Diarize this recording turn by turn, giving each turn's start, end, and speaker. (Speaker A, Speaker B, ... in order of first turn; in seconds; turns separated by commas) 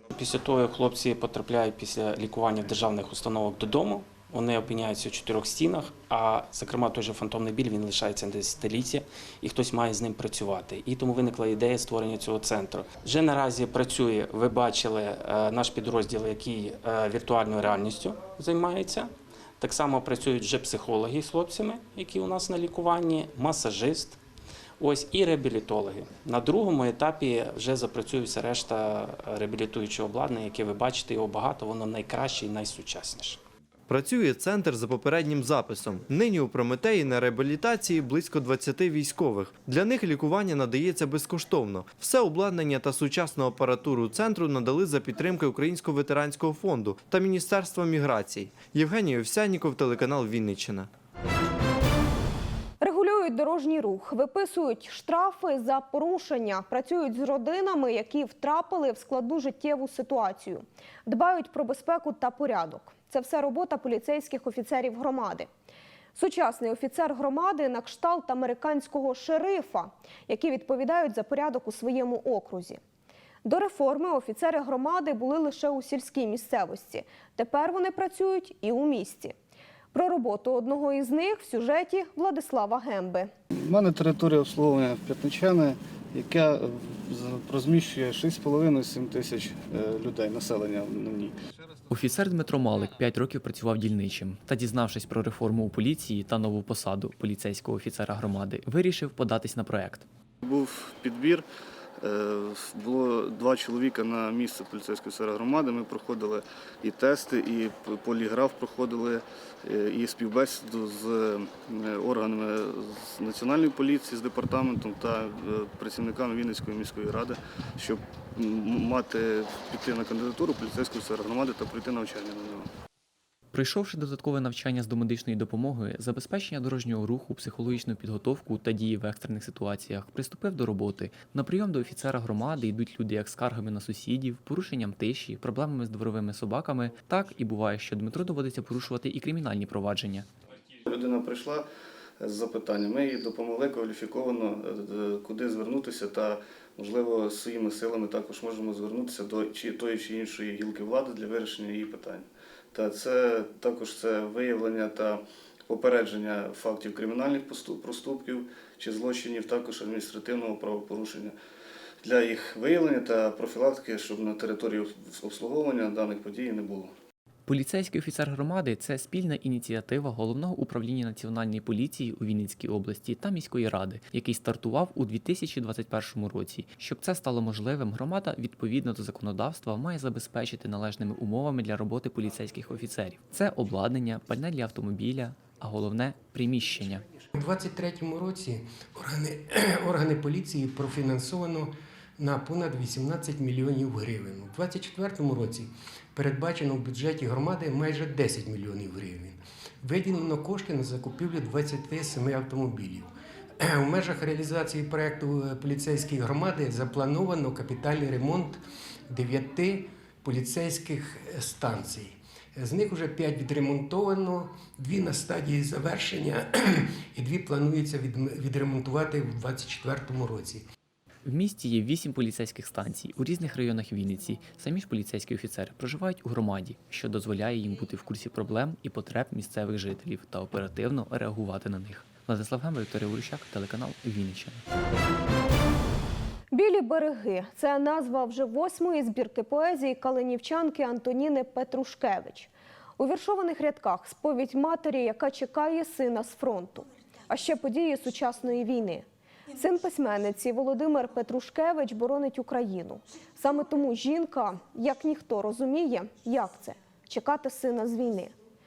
Speaker A: 0.1-24.2, Speaker A: 24.8-33.4, Speaker B: 33.9-50.9, Speaker C: 52.8-65.5, Speaker C: 66.1-72.8, Speaker C: 73.4-79.3, Speaker C: 79.9-83.3, Speaker D: 83.5-91.3, Speaker E: 91.9-100.0, Speaker D: 100.4-101.4, Speaker D: 102.0-122.7, Speaker E: 123.5-140.3, Speaker D: 140.8-141.6, Speaker D: 142.2-161.3, Speaker D: 162.0-166.9, Speaker E: 167.4-187.0, Speaker F: 187.3-220.6, Speaker E: 221.2-234.6, Speaker C: 236.5-258.3